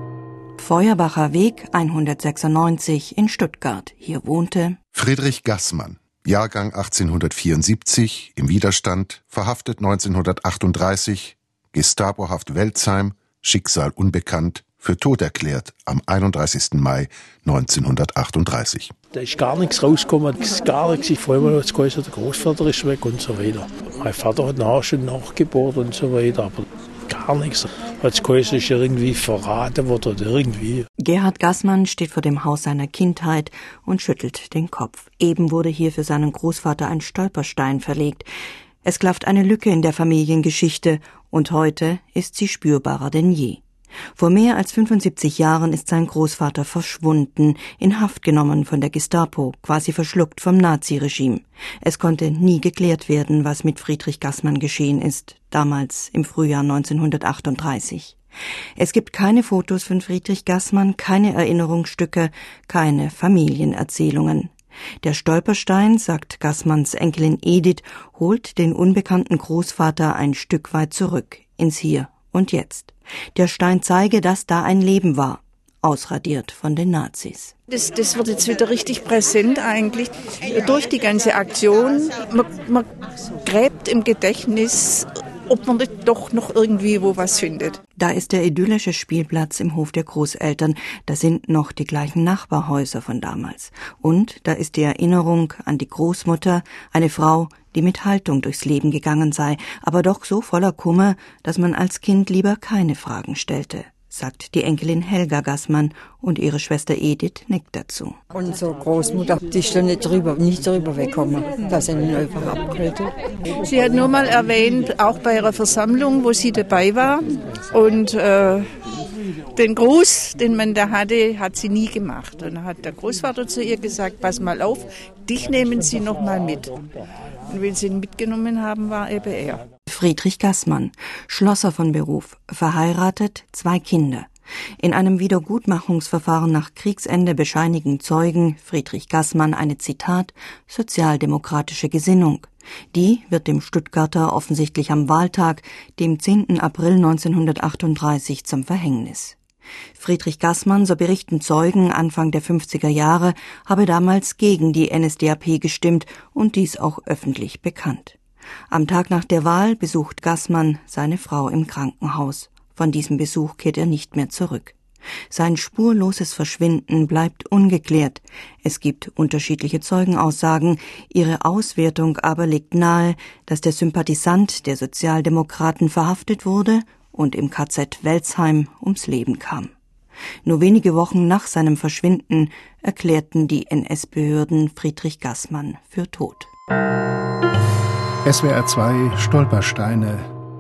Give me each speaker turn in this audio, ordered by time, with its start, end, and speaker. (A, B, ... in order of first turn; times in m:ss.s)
0:00.6-0:04.8 A
0:04.9-0:18.9 B
0:19.1-0:30.8 C
0:31.0-0:38.3 A
0:38.8-0:43.6 A
0:44.2-0:58.2 A
0:58.8-1:17.6 A
1:17.8-1:22.6 D
1:23.5-1:27.8 D
1:28.0-1:48.2 A
1:48.3-1:53.1 E
1:53.8-1:57.2 D
1:57.8-1:58.6 D
1:59.6-2:06.8 D
2:07.5-2:09.6 D
2:09.9-2:14.3 A
2:14.8-2:29.4 A
2:30.0-2:38.2 A
2:38.7-2:44.8 A
2:45.3-2:59.7 A
3:00.4-3:06.5 A
3:08.2-3:10.3 F